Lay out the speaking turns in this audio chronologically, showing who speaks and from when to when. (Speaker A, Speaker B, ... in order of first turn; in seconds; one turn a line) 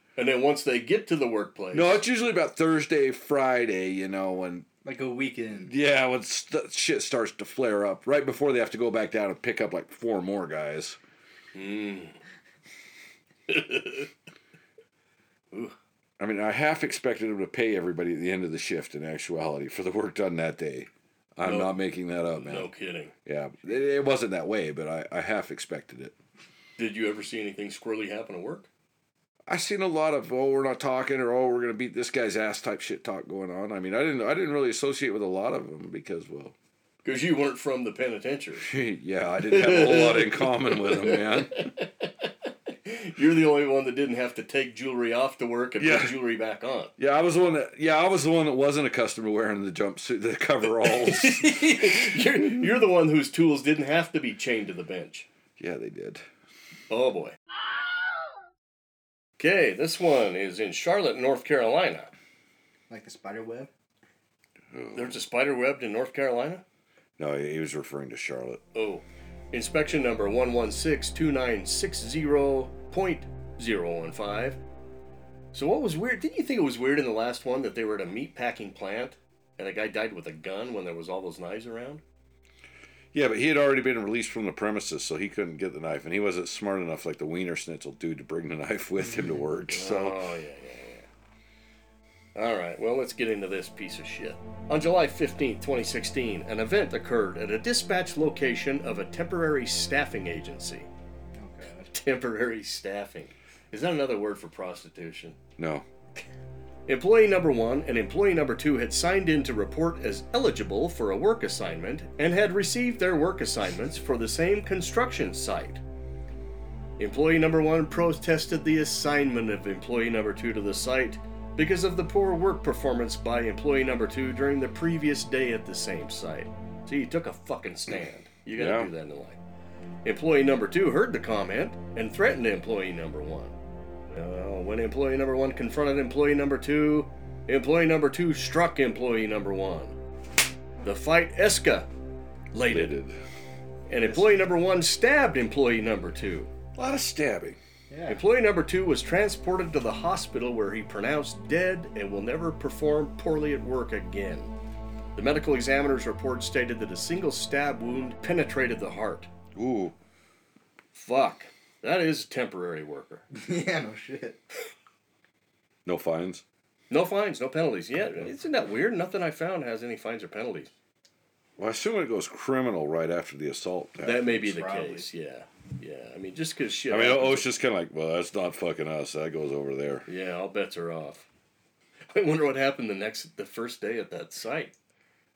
Speaker A: 0.1-2.0
Speaker B: 1.7-4.7
Speaker C: 4.8-5.7
Speaker B: 5.7-11.0
Speaker A: 11.5-12.2
Speaker A: 13.5-14.1
Speaker B: 16.2-22.7
Speaker A: 21.4-21.7
Speaker A: 22.3-23.1
Speaker B: 23.2-26.1
Speaker A: 26.8-28.7
Speaker B: 29.5-36.5
Speaker A: 37.0-38.7
Speaker B: 38.6-41.7
Speaker A: 39.5-42.3
Speaker A: 42.8-46.9
Speaker B: 45.8-46.2
Speaker B: 47.0-52.6
Speaker A: 50.8-55.3
Speaker B: 55.6-56.2
Speaker A: 56.9-57.4
Speaker A: 59.4-62.1
Speaker C: 62.9-63.7
Speaker B: 64.7-65.2
Speaker A: 64.9-66.6
Speaker B: 67.2-68.6
Speaker A: 68.7-74.6
Speaker A: 75.5-82.0
Speaker B: 83.1-90.2
Speaker A: 89.7-91.1
Speaker A: 92.3-100.9
Speaker C: 101.3-101.9
Speaker A: 101.9-105.4
Speaker B: 105.6-105.8
Speaker A: 106.9-115.8
Speaker A: 117.0-129.4
Speaker B: 128.6-128.9
Speaker A: 130.0-133.5
Speaker A: 134.1-139.9
Speaker A: 140.8-141.9
Speaker A: 142.5-142.9
Speaker B: 142.7-143.2
Speaker A: 143.9-146.5
Speaker C: 144.0-144.3
Speaker B: 146.7-147.6
Speaker C: 147.9-148.2
Speaker A: 148.1-154.5
Speaker A: 155.2-159.3
Speaker B: 159.5-159.9
Speaker A: 160.9-163.2
Speaker C: 163.3-164.4
Speaker B: 165.8-166.4
Speaker A: 166.9-170.7
Speaker B: 171.6-174.3
Speaker A: 174.0-177.5
Speaker C: 174.3-175.1
Speaker B: 176.9-180.1
Speaker A: 180.1-181.3
Speaker A: 182.1-184.7